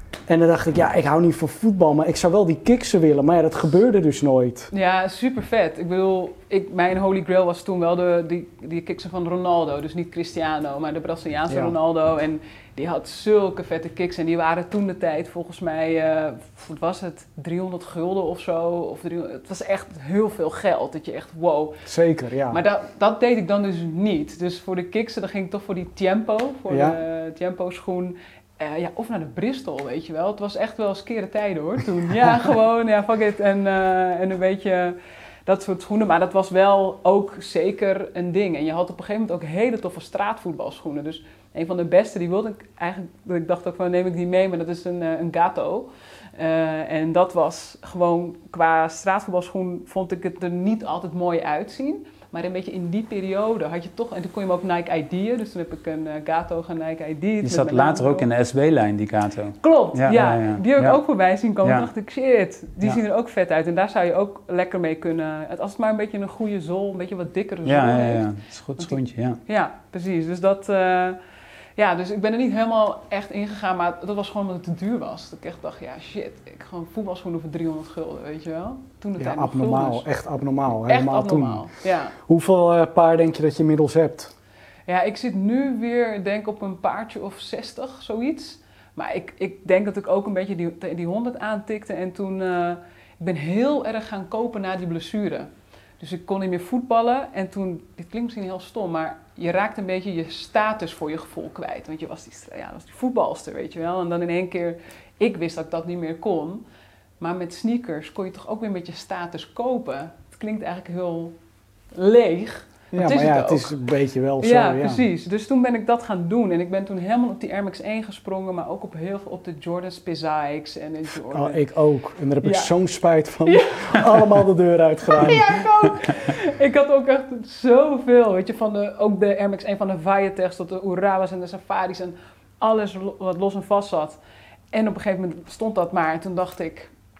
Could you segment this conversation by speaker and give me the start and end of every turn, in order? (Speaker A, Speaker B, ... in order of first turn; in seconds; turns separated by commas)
Speaker A: 0.3-4.7, Speaker B: 4.7-21.8, Speaker A: 11.5-11.7, Speaker A: 21.9-22.6, Speaker B: 22.5-58.3, Speaker A: 26.7-27.0, Speaker C: 57.4-61.0, Speaker B: 59.6-68.3, Speaker C: 67.7-69.4, Speaker B: 68.8-71.2, Speaker B: 71.8-80.0, Speaker A: 79.2-81.7, Speaker B: 80.9-82.2, Speaker A: 82.3-84.3, Speaker B: 84.9-106.6, Speaker B: 107.2-111.4, Speaker B: 111.9-113.7, Speaker A: 112.9-115.0, Speaker B: 114.4-121.6, Speaker A: 121.3-125.6, Speaker B: 122.4-122.7, Speaker B: 123.5-124.2, Speaker B: 125.2-134.2, Speaker B: 134.7-136.9